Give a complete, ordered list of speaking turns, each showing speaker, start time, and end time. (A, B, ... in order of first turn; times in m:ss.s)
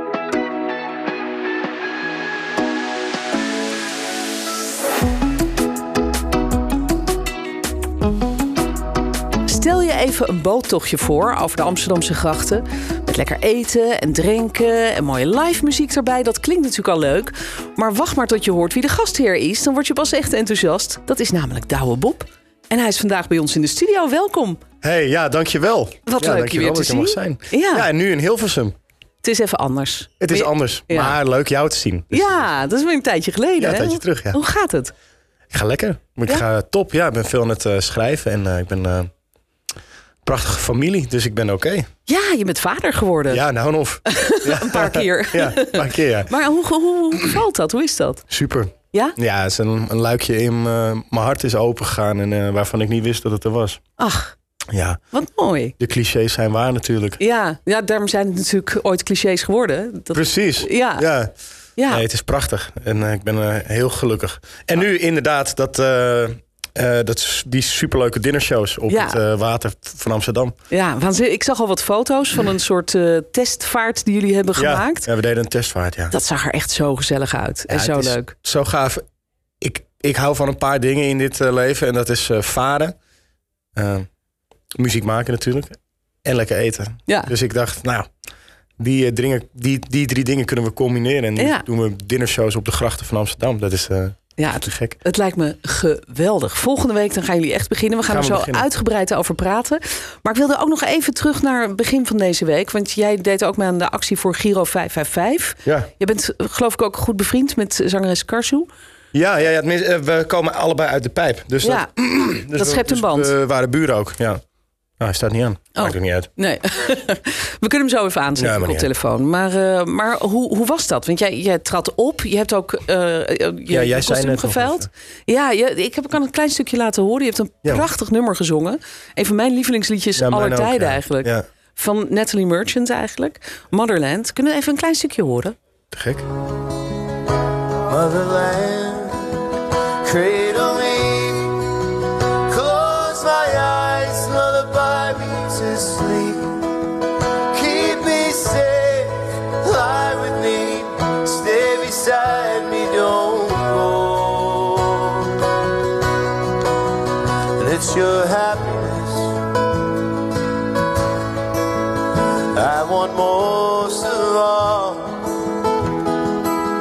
0:09.4-0:24.6 A
0:24.8-0:28.8 B
0:26.1-0:27.9 A
0:29.2-0:31.2 A
0:30.2-0:32.5 B
0:32.1-0:34.9 A
0:33.6-0:34.4 B
0:35.5-0:39.1 B
0:40.2-0:41.9 B
0:42.1-0:43.5 A
0:43.3-0:46.4 B
0:44.1-0:48.2 A
0:48.3-0:53.8 B
0:54.0-0:54.4 A
0:54.7-0:55.0 B
0:55.1-0:55.7 A
0:55.8-0:57.2 B
0:57.2-1:01.1 A
1:00.1-1:01.3 B
1:01.8-1:02.0 A
1:01.9-1:10.5 B
1:08.9-1:09.2 A
1:10.7-1:15.1 A
1:14.6-1:16.2 B
1:16.1-1:18.3 A
1:17.7-1:19.0 B
1:19.6-1:23.0 B
1:23.8-1:24.1 B
1:24.8-1:28.1 B
1:27.1-1:27.3 A
1:28.8-1:35.0 B
1:31.4-1:31.7 A
1:34.4-1:48.7 A
1:38.1-1:38.7 B
1:49.1-1:54.4 B
1:51.6-1:51.9 A
1:52.5-1:53.3 A
1:55.0-1:56.3 B
1:55.8-2:15.6 A
1:58.4-1:58.9 B
2:03.7-2:04.9 B
2:10.2-2:11.4 B
2:15.9-2:16.3 B
2:17.9-2:19.4 C
2:20.0-2:26.7 C
2:27.5-2:35.5 C
2:37.6-2:39.4 C
2:42.5-2:45.4 C